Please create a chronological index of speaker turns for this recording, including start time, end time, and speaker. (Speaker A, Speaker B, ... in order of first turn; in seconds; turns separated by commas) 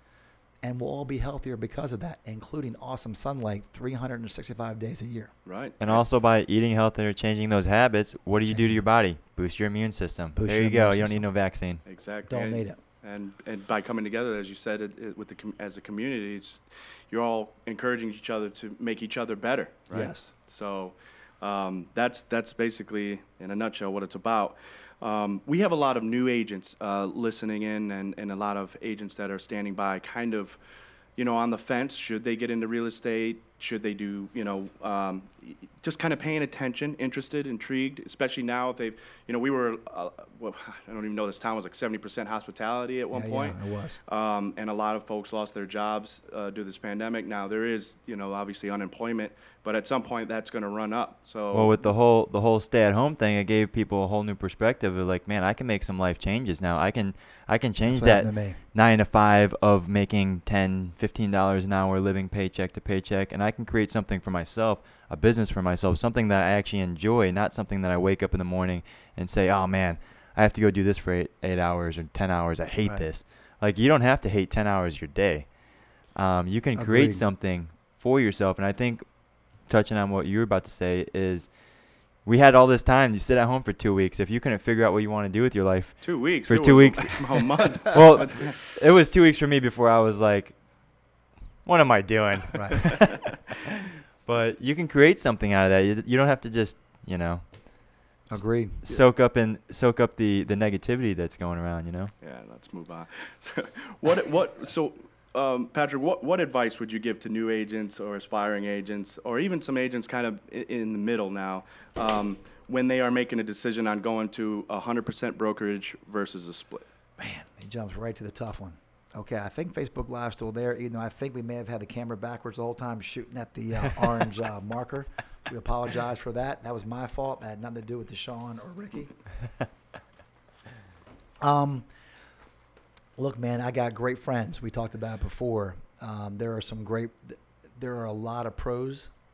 Speaker A: 0.6-5.3, Speaker B: 5.5-6.0, Speaker C: 5.8-11.8, Speaker A: 8.5-8.8, Speaker A: 10.3-11.3, Speaker B: 11.8-30.6, Speaker A: 12.3-12.8, Speaker A: 19.9-20.3, Speaker B: 31.2-51.9, Speaker A: 43.1-44.0, Speaker C: 51.5-75.5, Speaker A: 57.9-58.6, Speaker C: 76.2-79.1, Speaker A: 76.8-77.2, Speaker C: 79.7-81.5, Speaker C: 82.2-90.6, Speaker B: 86.0-88.6, Speaker C: 91.7-93.7, Speaker A: 92.5-93.0, Speaker C: 94.2-97.4, Speaker A: 98.3-98.8, Speaker C: 98.9-102.1, Speaker B: 102.2-116.9, Speaker A: 117.2-129.2, Speaker A: 131.4-131.9, Speaker A: 133.2-139.1